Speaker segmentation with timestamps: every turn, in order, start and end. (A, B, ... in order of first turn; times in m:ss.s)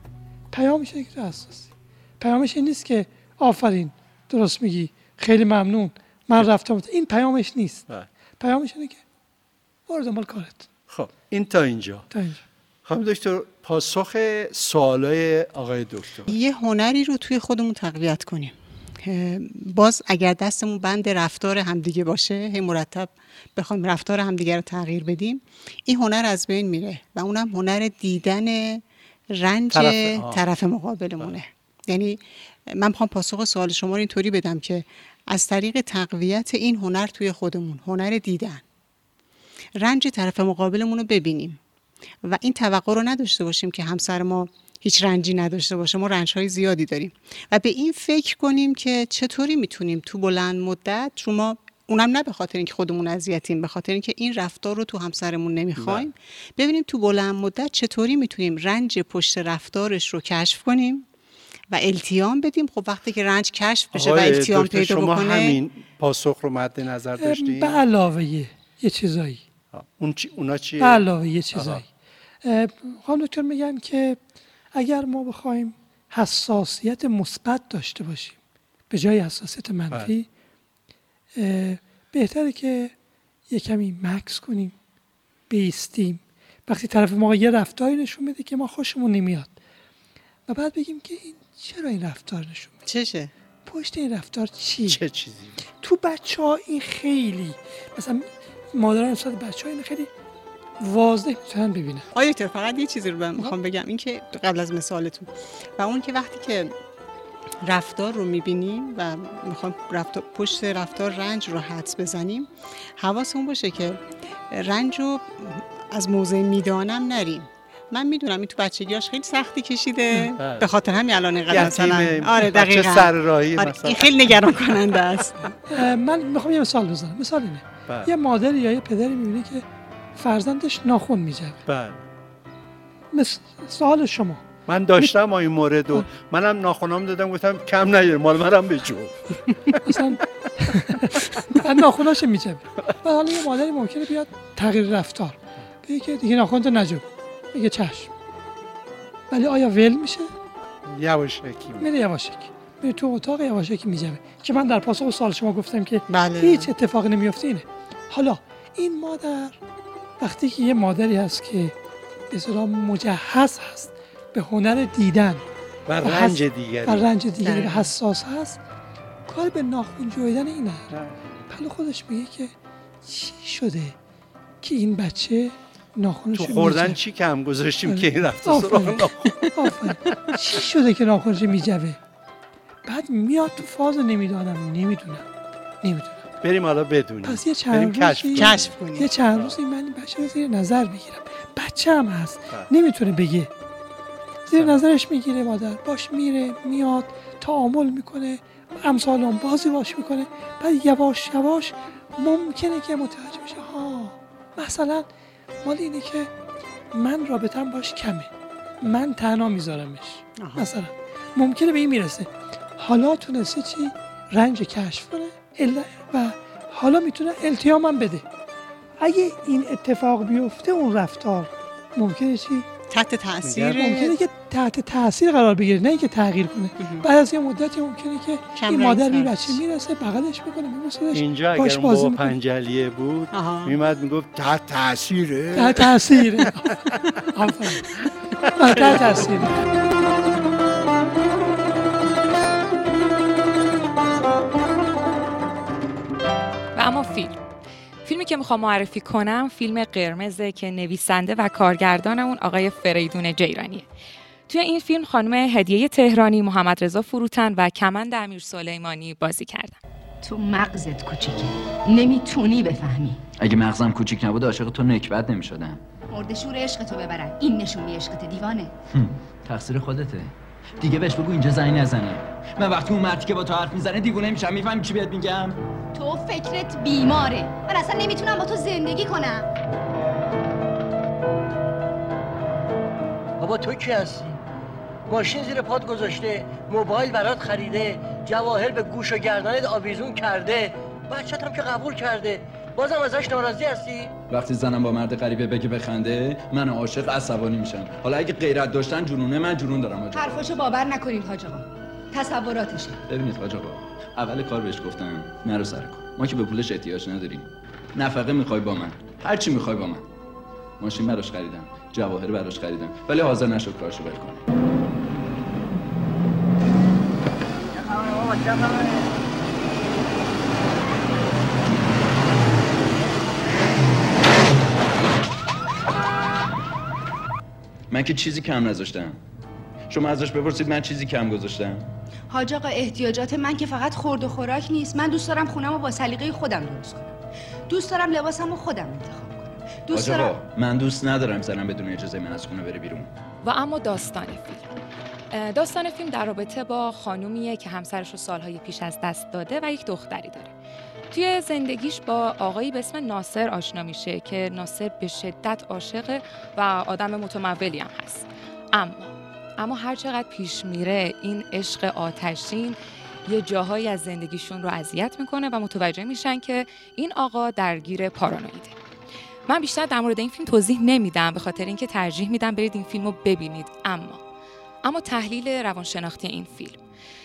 0:00.5-0:07.8 A
0:08.4-0:09.0 A
0:09.9-0:10.7 A
0:10.9-0:12.1 B
0:12.1-0:12.4 A
0:12.8-0:16.3 B
0:16.3-0:32.2 C
0:29.7-0:30.4 B
0:32.7-0:38.6 C
0:39.8-0:41.6 C
0:42.2-1:01.1 C
0:55.8-0:56.1 B
1:01.7-1:05.6 C
1:03.9-1:07.8 B
1:07.2-1:09.4 A
1:09.7-1:11.8 B
1:10.8-1:11.9 A
1:12.4-1:14.2 A
1:14.7-1:18.4 A
1:18.9-1:20.3 A
1:21.4-1:22.9 A
1:23.5-1:24.8 A
1:25.5-1:29.5 A
1:30.5-1:32.8 A
1:32.8-1:33.3 C
1:33.6-1:35.0 A
1:34.8-1:35.7 B
1:35.8-1:40.1 A
1:40.8-1:42.1 A
1:42.1-1:46.7 C
1:47.6-2:05.5 C
2:00.4-2:00.7 B
2:01.5-2:04.1 B
2:05.7-2:11.6 A
2:07.9-2:08.1 B
2:11.7-2:12.0 B
2:13.1-2:15.1 A
2:14.7-2:20.0 B
2:19.8-2:28.1 A
2:21.1-2:21.6 B
2:29.3-2:30.3 A
2:30.8-2:31.9 B
2:31.8-2:39.6 A
2:36.1-2:36.7 C
2:40.2-2:41.7 A
2:42.3-2:45.4 A
2:45.8-2:47.1 B
2:46.0-2:48.6 A
2:47.4-2:47.8 C
2:49.3-2:50.9 A
2:50.9-2:51.2 B
2:51.5-2:54.0 A
2:54.6-2:57.0 A
2:56.3-2:59.5 B
2:57.8-3:02.0 A
3:02.8-3:05.3 A
3:05.8-3:06.2 A
3:06.4-3:08.7 B
3:07.2-3:13.5 A
3:08.4-3:09.1 C
3:14.5-3:25.1 A
3:25.6-3:26.3 A
3:26.9-3:38.2 A
3:30.4-3:30.7 C
3:39.0-3:42.7 A
3:42.9-3:44.2 C
3:43.4-3:43.8 B
3:43.8-3:52.3 A
3:46.8-3:47.1 C
3:48.6-3:49.6 C
3:51.1-3:57.0 B
3:53.3-3:53.7 C
3:55.5-3:56.8 A
3:57.3-3:57.9 A
3:58.5-3:59.6 A
3:58.7-3:59.1 B
4:06.7-4:07.4 D
4:08.0-4:13.9 D
4:14.5-4:19.8 D
4:20.2-4:23.2 E
4:23.4-4:25.8 F
4:26.1-4:28.7 E
4:28.9-4:35.6 F
4:35.9-4:39.4 E
4:43.4-4:44.4 G
4:45.1-4:54.1 G
4:54.3-5:00.5 F
5:00.1-5:03.0 E
5:03.1-5:10.0 F
5:10.8-5:14.4 F
5:18.0-5:18.4 G
5:27.9-5:29.2 F
5:29.9-5:31.9 F
5:32.3-5:37.2 E
5:37.7-5:40.4 E
5:39.9-5:43.1 F
5:43.4-5:44.7 D
5:45.3-5:50.5 D
5:51.1-6:08.8 D
6:09.5-6:14.2 D
6:14.8-6:16.8 D